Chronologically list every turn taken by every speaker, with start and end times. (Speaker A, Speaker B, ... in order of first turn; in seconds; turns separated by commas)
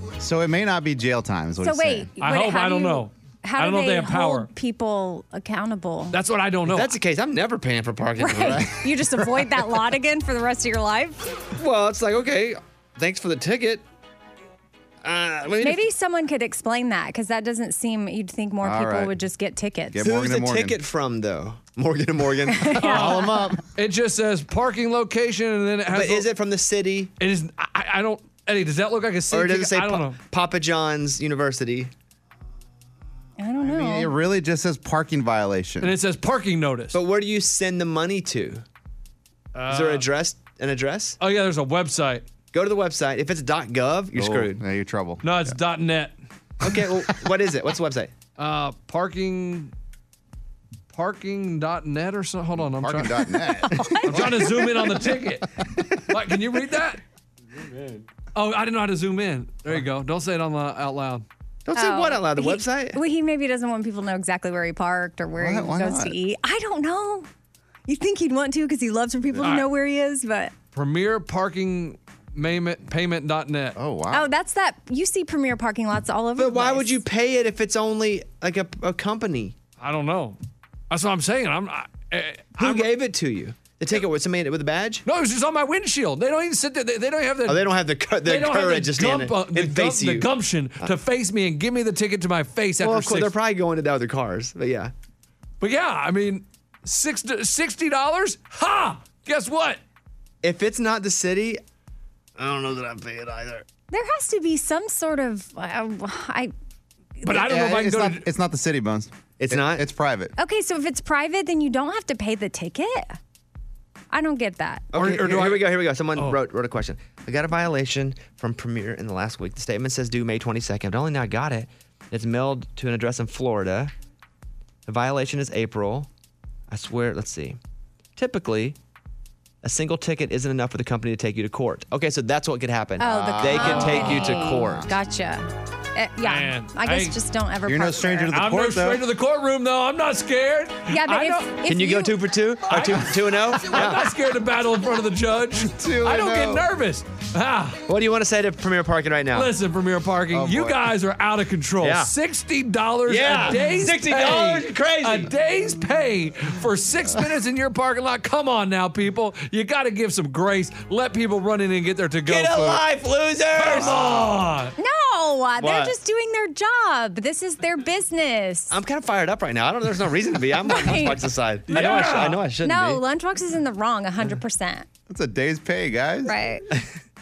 Speaker A: 0.2-2.1, Speaker B: 1.6-6.2, Speaker C: 2.2-4.5, Speaker C: 6.1-6.9, Speaker D: 6.7-8.8, Speaker B: 8.2-11.2, Speaker A: 8.3-9.4, Speaker D: 11.5-13.8, Speaker D: 15.0-15.8, Speaker B: 15.6-20.0, Speaker A: 18.6-19.1, Speaker A: 19.9-20.8, Speaker D: 20.0-23.1, Speaker B: 22.6-23.2, Speaker C: 22.8-26.3, Speaker A: 22.9-23.6, Speaker D: 25.9-27.1, Speaker C: 27.2-30.2, Speaker D: 29.3-31.9, Speaker B: 33.4-34.1, Speaker A: 33.6-35.9, Speaker C: 35.8-37.0, Speaker D: 36.9-38.6, Speaker C: 39.5-40.1, Speaker D: 39.7-41.2, Speaker C: 41.2-42.2, Speaker D: 42.5-44.6, Speaker A: 44.1-45.5, Speaker C: 45.2-46.1, Speaker D: 46.6-48.1, Speaker A: 46.7-47.1, Speaker C: 48.4-49.7, Speaker C: 50.9-53.4, Speaker A: 52.6-54.6, Speaker B: 53.7-54.0, Speaker D: 53.8-54.5, Speaker C: 54.0-55.5, Speaker C: 56.1-57.0, Speaker C: 58.3-61.2, Speaker D: 61.6-63.0, Speaker B: 61.7-67.3, Speaker A: 65.4-66.1, Speaker B: 67.9-70.5, Speaker C: 69.4-69.7, Speaker C: 70.7-73.8, Speaker A: 73.8-74.3, Speaker B: 74.1-77.0, Speaker D: 76.4-79.5, Speaker C: 79.8-80.4, Speaker C: 80.9-82.9, Speaker D: 82.6-85.0, Speaker C: 85.0-87.7, Speaker D: 87.5-90.3, Speaker C: 88.2-93.3, Speaker D: 92.8-94.9, Speaker C: 95.6-99.8, Speaker D: 100.4-101.6, Speaker D: 102.4-103.7, Speaker B: 103.9-106.5, Speaker B: 107.2-107.5, Speaker C: 107.2-108.2, Speaker A: 107.4-110.3, Speaker D: 109.4-109.9, Speaker B: 110.4-113.2, Speaker B: 114.1-114.9, Speaker D: 114.9-123.9, Speaker C: 114.9-116.4, Speaker D: 124.9-126.1, Speaker D: 126.7-127.6, Speaker D: 128.2-128.8, Speaker D: 129.6-134.9, Speaker B: 133.0-138.4, Speaker A: 133.0-134.9, Speaker C: 136.2-137.2, Speaker A: 137.7-139.0, Speaker C: 138.3-141.6, Speaker B: 140.9-142.2, Speaker D: 141.6-144.0, Speaker C: 142.7-147.8, Speaker A: 145.6-146.7, Speaker D: 147.9-149.5, Speaker C: 149.3-162.8, Speaker A: 150.3-150.8, Speaker D: 151.8-152.1, Speaker D: 153.1-155.3, Speaker D: 162.2-164.3, Speaker C: 163.5-164.7, Speaker A: 163.7-164.1, Speaker B: 164.8-168.8, Speaker D: 165.6-166.0, Speaker D: 168.7-173.0, Speaker B: 170.6-174.9, Speaker C: 171.7-172.4, Speaker A: 175.1-176.3, Speaker B: 176.2-176.6